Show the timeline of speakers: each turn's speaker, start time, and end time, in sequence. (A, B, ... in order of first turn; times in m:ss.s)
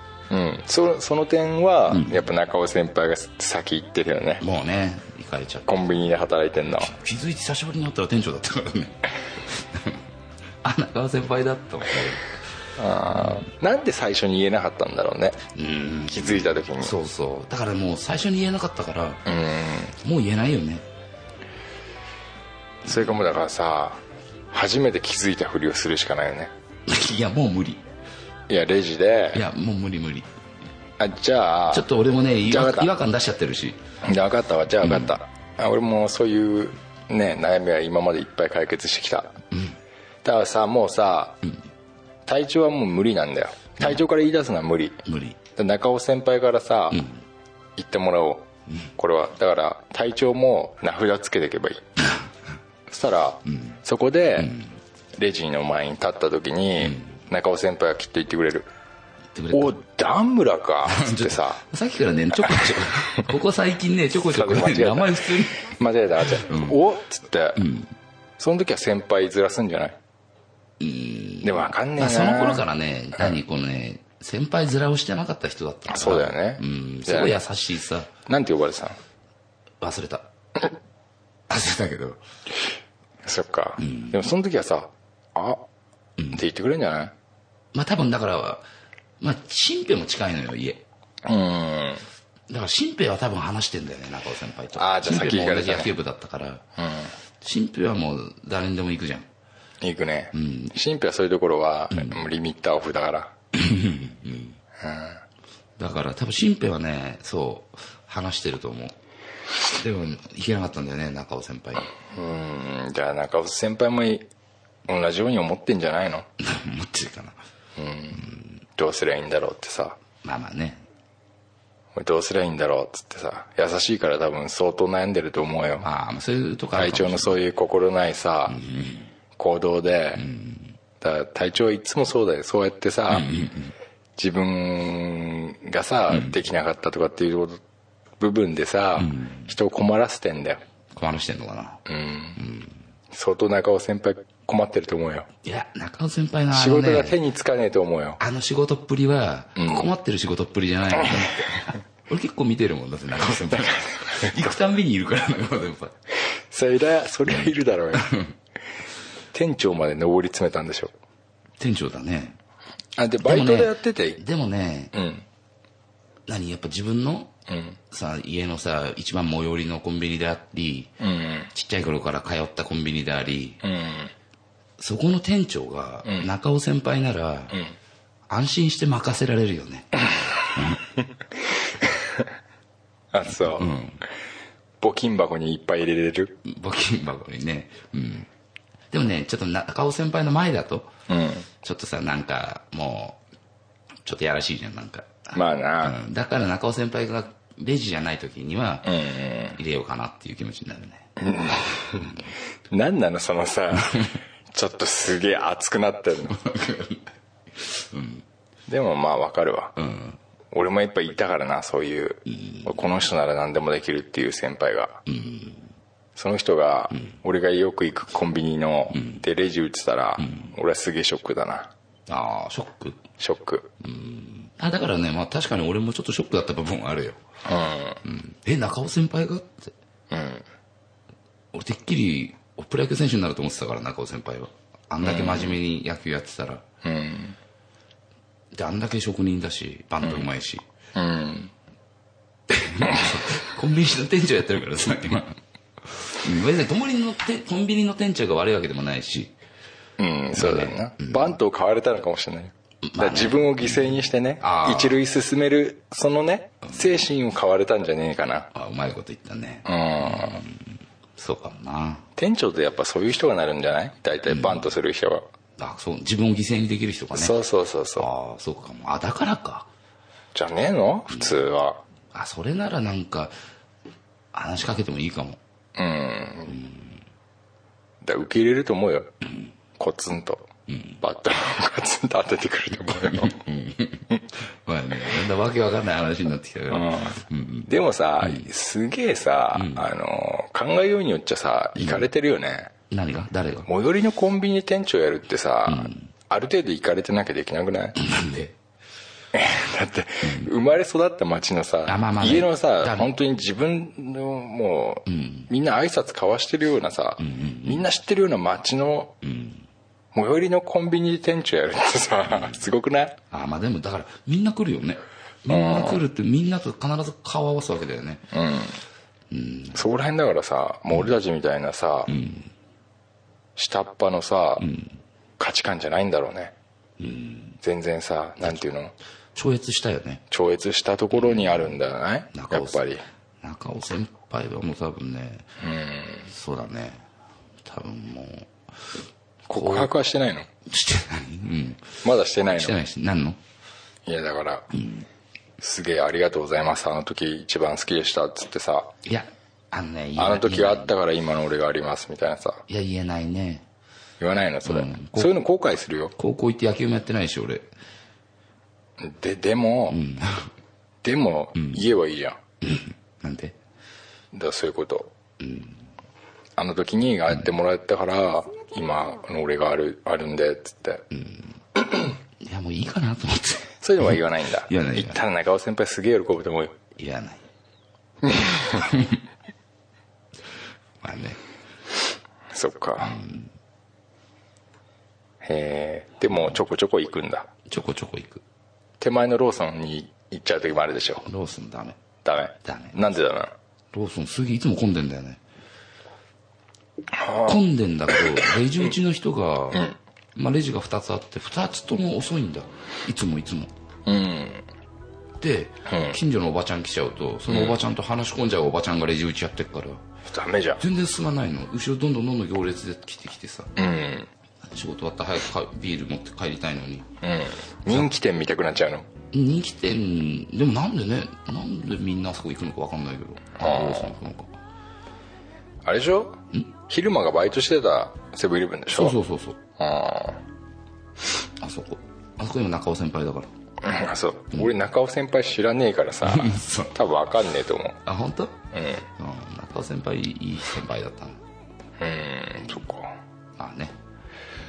0:00.3-0:04.4 A
0:01.9-0:02.2 B
0:04.4-0:05.8 B
0:05.7-0:06.9 A
0:06.8-0:10.0 B
0:10.6-0:12.4 B
0:12.8-0:15.4 A
0:15.5-0:19.2 B
0:16.1-0:17.0 A
0:19.3-0:20.0 A
0:20.0-0:20.8 B
0:22.9-0:24.0 A
0:24.5-0:26.5 A
0:26.9-0:27.8 B
0:28.5-0:29.4 A
0:29.3-0:30.3 B
0:31.0-0:31.9 A
0:31.7-0:33.8 B
0:32.5-0:32.9 A
0:34.0-0:39.4 A
0:34.8-0:35.1 B
0:40.2-0:41.4 A
0:42.3-0:45.0 A
0:45.1-0:45.4 B
0:45.6-0:47.0 A
0:46.9-0:47.2 B
0:47.8-0:51.8 A
0:52.9-0:54.6 A
0:54.4-0:54.7 B
0:55.2-0:58.7 A
0:59.4-0:59.7 B
0:59.5-1:01.6 A
1:00.9-1:05.6 B
1:04.2-1:07.6 A
1:06.4-1:06.8 B
1:07.6-1:07.9 B
1:08.4-1:10.0 A
1:10.8-1:18.1 B
1:11.4-1:12.6 A
1:15.9-1:17.4 A
1:18.3-1:19.0 A
1:19.8-1:20.3 B
1:21.5-1:22.2 B
1:23.2-1:25.6 A
1:23.8-1:24.1 B
1:26.3-1:27.1 A
1:27.7-1:28.6 B
1:29.2-1:30.8 B
1:31.2-1:32.0 A
1:32.5-1:36.6 B
1:34.8-1:35.9 A
1:36.8-1:37.1 A
1:37.4-1:39.3 B
1:39.8-1:43.3 A
1:40.3-1:40.7 B
1:41.9-1:42.2 B
1:43.5-1:44.6 B
1:44.8-1:45.2 A
1:45.8-1:49.0 B
1:49.7-1:51.9 B
1:52.1-1:54.3 A
1:54.9-1:56.3 A
1:56.4-1:57.4 B
1:57.8-2:00.0 A
1:58.2-1:58.5 B
2:00.2-2:00.8 B
2:02.0-2:05.9 A
2:05.8-2:07.4 B
2:06.8-2:08.6 A
2:08.5-2:09.1 B
2:09.4-2:10.3 A
2:10.2-2:10.7 B
2:11.0-2:13.3 A
2:13.1-2:13.7 B
2:14.2-2:17.6 A
2:18.2-2:20.6 A
2:19.0-2:19.5 B
2:20.9-2:21.8 B
2:21.9-2:22.4 A
2:22.4-2:22.8 B
2:23.1-2:25.3 A
2:25.4-2:27.2 B
2:26.5-2:28.2 A
2:28.2-2:35.9 B
2:29.6-2:29.9 A
2:33.6-2:34.3 A
2:36.5-2:38.2 A
2:38.0-2:38.3 B
2:39.3-2:40.9 A
2:41.6-2:42.4 B
2:43.0-2:44.2 A
2:43.2-2:44.9 B
2:44.9-2:45.2 A
2:46.3-2:47.3 B
2:47.5-2:47.8 A
2:47.9-2:50.9 B
2:51.0-2:51.5 A
2:51.5-2:53.6 B
2:53.6-2:54.1 A
2:54.8-2:57.6 B
2:58.3-2:59.9 B
3:02.0-3:02.2 A
3:03.1-3:03.7 A
3:03.4-3:04.0 B
3:04.8-3:06.4 A
3:06.4-3:08.3 B
3:08.9-3:10.9 B
3:11.1-3:11.5 A
3:11.6-3:13.2 B
3:14.0-3:19.0 B
3:15.3-3:16.0 A
3:18.8-3:19.6 A
3:19.6-3:21.1 B
3:21.2-3:26.4 A
3:26.3-3:28.2 B
3:28.7-3:29.8 A
3:29.8-3:30.2 B
3:30.5-3:35.0 A
3:35.1-3:35.7 B
3:36.2-3:41.7 A
3:39.0-3:39.2 B
3:42.1-3:43.0 B
3:43.2-3:43.7 A
3:43.8-3:47.2 B
3:47.4-3:48.0 A
3:48.0-3:49.7 B
3:50.1-3:50.4 A
3:51.5-3:56.6 B
3:55.0-3:55.6 A
3:56.8-3:57.4 A
3:58.5-4:00.7 B
4:01.0-4:01.5 A
4:02.5-4:05.4 B
4:02.8-4:03.1 A
4:05.9-4:09.3 B
4:10.0-4:18.5 A
4:10.4-4:11.3 B
4:12.8-4:15.0 B
4:18.5-4:20.6 B
4:19.6-4:20.4 A
4:21.2-4:22.1 B
4:22.2-4:25.3 A
4:24.3-4:24.6 B
4:25.6-4:27.4 B
4:27.1-4:28.1 A
4:28.0-4:29.7 B
4:30.3-4:31.8 A
4:32.1-4:33.4 B
4:34.3-4:35.4 B
4:35.8-4:36.6 A
4:36.5-4:37.0 B
4:38.0-4:39.1 A
4:39.8-4:43.4 A
4:40.7-4:41.0 B
4:42.9-4:44.1 B
4:44.6-4:47.7 B
4:46.7-4:52.7 A
4:48.2-4:48.5 B
4:49.5-4:49.9 B
4:51.8-4:52.1 B
4:52.9-4:53.7 B
4:53.7-4:58.0 A
4:55.7-4:56.0 B
4:58.0-4:58.6 B
4:59.3-5:09.2 A
5:00.2-5:00.5 B
5:01.9-5:03.1 B
5:05.1-5:05.5 B
5:07.2-5:07.8 B
5:09.2-5:09.6 B
5:10.1-5:13.2 A
5:13.3-5:18.2 B
5:15.5-5:16.0 A
5:18.3-5:18.8 A
5:19.3-5:19.8 B
5:19.7-5:22.1 A
5:22.1-5:22.5 B
5:23.6-5:24.7 A
5:24.6-5:25.0 B
5:25.4-5:26.5 A
5:27.0-5:27.6 B
5:27.6-5:28.9 A
5:29.4-5:30.2 B
5:30.3-5:33.0 A
5:31.2-5:31.7 B
5:32.3-5:32.8 B
5:33.4-5:35.5 B
5:35.6-5:36.3 A
5:36.3-5:37.0 B
5:37.6-5:38.5 B
5:39.5-5:40.5 A
5:39.5-5:39.9 B
5:40.6-5:42.0 B
5:42.0-5:42.8 A
5:42.5-5:43.4 B
5:44.1-5:44.7 A
5:44.7-5:45.1 B
5:45.6-5:48.9 A
5:49.0-5:50.9 B
5:50.2-5:52.6 A
5:52.7-5:53.6 B
5:54.2-5:56.1 A
5:54.6-5:55.3 B
5:56.2-5:57.7 B
5:59.0-6:00.0 A
5:59.9-6:00.5 B
6:01.0-6:02.4 A
6:01.6-6:01.8 B
6:02.6-6:03.6 B
6:04.3-6:05.1 A
6:05.4-6:05.8 B
6:06.6-6:11.0 A
6:11.1-6:11.6 B
6:12.4-6:14.2 B
6:13.8-6:16.8 A
6:14.7-6:15.2 B
6:17.0-6:17.4 B
6:18.2-6:18.9 A
6:21.0-6:21.4 B
6:22.5-6:23.2 A
6:23.0-6:23.5 B
6:25.4-6:27.5 A
6:27.7-6:28.4 B
6:29.0-6:31.3 A
6:31.2-6:32.0 B
6:32.2-6:33.5 A
6:32.6-6:33.0 B
6:33.9-6:35.4 B
6:37.1-6:38.6 A
6:37.5-6:43.7 B
6:44.1-6:44.6 A
6:45.4-6:50.0 B
6:45.9-6:46.2 A
6:47.5-6:47.8 A
6:50.3-6:50.8 A
6:50.8-6:53.7 B
6:53.8-6:54.3 A
6:54.6-6:57.1 B
6:57.2-6:59.1 A
6:59.3-7:04.5 B
7:03.6-7:04.2 A
7:05.8-7:09.2 A
7:08.9-7:09.6 B
7:09.8-7:10.4 A
7:11.6-7:13.5 B
7:13.8-7:18.0 A
7:16.2-7:16.9 B
7:18.0-7:21.4 B
7:18.7-7:19.0 A
7:22.0-7:23.2 A
7:23.6-7:24.0 B